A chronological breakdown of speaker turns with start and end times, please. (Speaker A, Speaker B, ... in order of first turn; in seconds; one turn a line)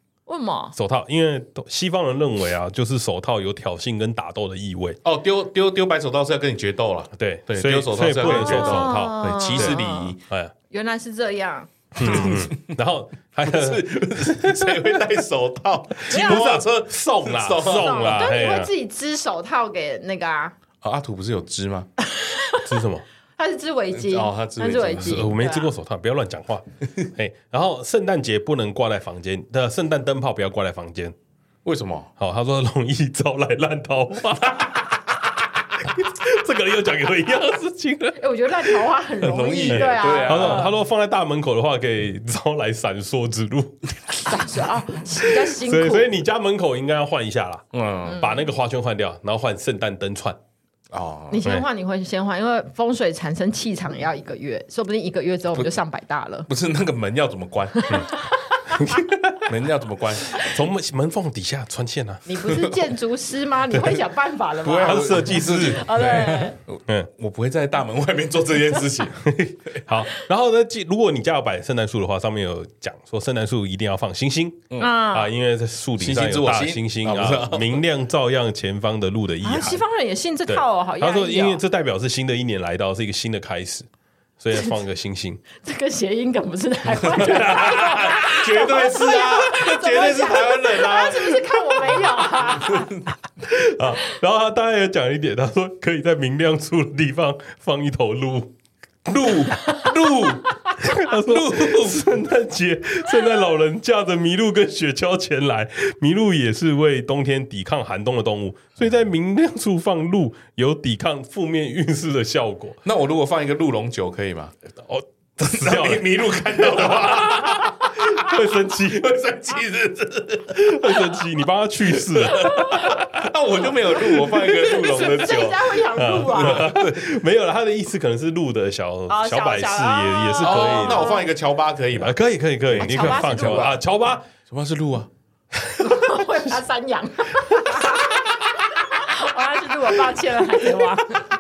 Speaker A: 0.3-0.8
Speaker B: 0.8-5.0
Speaker C: 5.0-10.2
Speaker B: 7.2-10.5
Speaker A: 8.2-10.2
Speaker A: 10.7-12.3
Speaker B: 12.0-15.1
Speaker C: 12.0-12.7
Speaker C: 13.4-18.1
Speaker B: 16.0-18.7
Speaker A: 16.1-16.5
Speaker A: 17.7-20.6
Speaker C: 20.8-21.9
Speaker A: 22.1-22.6
Speaker B: 22.6-23.1
Speaker A: 23.4-25.7
Speaker C: 23.9-25.3
Speaker B: 25.0-31.1
Speaker C: 31.6-32.1
Speaker B: 32.2-35.2
Speaker B: 35.8-38.9
Speaker A: 38.2-40.7
Speaker C: 39.2-40.7
Speaker B: 39.6-44.3
Speaker A: 44.3-46.1
Speaker B: 45.2-50.4
Speaker C: 47.7-48.3
Speaker A: 48.1-48.5
Speaker C: 50.9-51.4
Speaker A: 51.3-56.5
Speaker C: 56.5-58.1
Speaker A: 57.8-58.8
Speaker B: 58.7-59.5
Speaker C: 59.5-60.4
Speaker B: 60.3-62.4
Speaker A: 62.3-66.6
Speaker C: 62.5-62.8
Speaker B: 63.7-64.0
Speaker C: 64.6-69.8
Speaker B: 64.8-67.1
Speaker B: 69.2-79.8
Speaker A: 74.8-75.3
Speaker C: 76.0-77.8
Speaker A: 79.4-81.6
Speaker B: 80.5-83.9
Speaker B: 84.4-85.4
Speaker A: 85.6-93.0
Speaker B: 87.0-88.5
Speaker C: 88.0-91.4
Speaker C: 92.7-93.0
Speaker B: 93.4-98.5
Speaker C: 99.1-100.4
Speaker B: 100.1-112.8
Speaker C: 101.2-102.0
Speaker C: 112.8-114.5
Speaker B: 114.8-119.2
Speaker C: 115.5-121.0
Speaker B: 120.5-123.2
Speaker C: 122.0-127.1
Speaker A: 124.5-126.7
Speaker B: 126.0-131.2
Speaker A: 129.1-131.2
Speaker C: 130.4-132.2
Speaker B: 131.9-134.3
Speaker C: 132.7-133.8
Speaker A: 132.7-133.8
Speaker C: 134.5-135.1
Speaker B: 135.6-136.2
Speaker A: 135.8-141.2